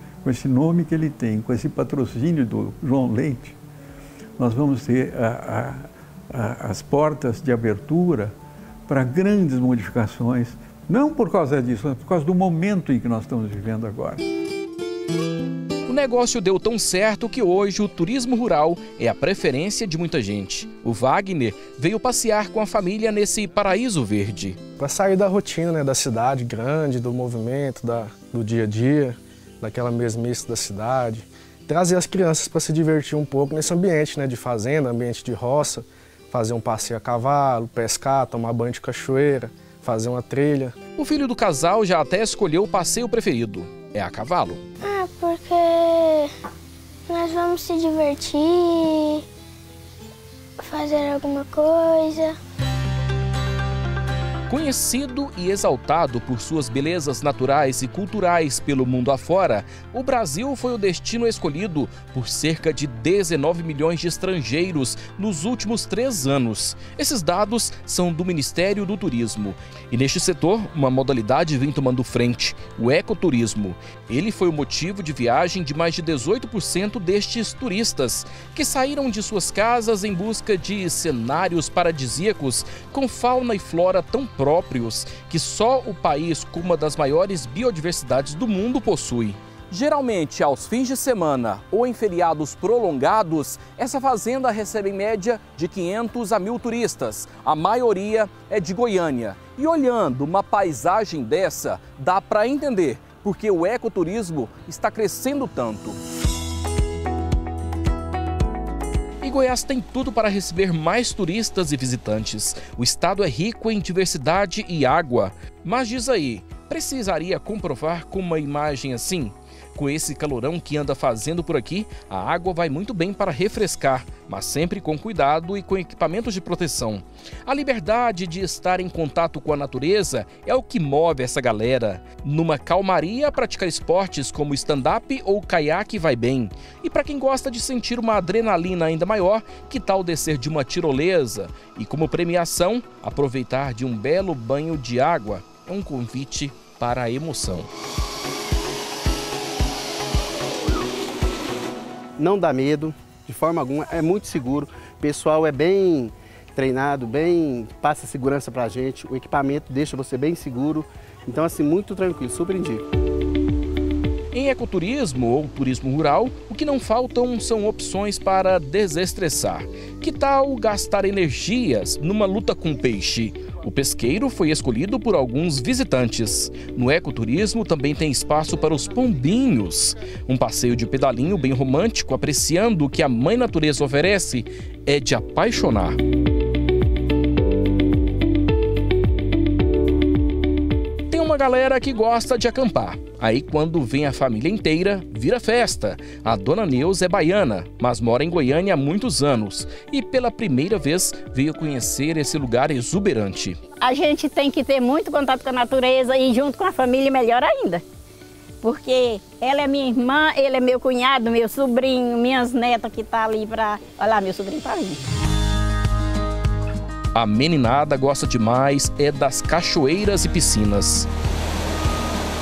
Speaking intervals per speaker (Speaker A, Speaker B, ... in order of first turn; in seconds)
Speaker A: 0.2-3.5, 4.4-8.3, 8.9-14.2
Speaker B: 15.9-24.6, 41.0-44.6, 54.5-106.0, 109.2-147.7, 164.3-186.0, 191.1-203.6, 217.1-221.1
Speaker C: 24.8-40.8
Speaker D: 44.8-46.3, 47.1-49.2, 50.6-52.4
Speaker E: 152.2-162.8
Speaker F: 203.8-207.8, 208.6-215.0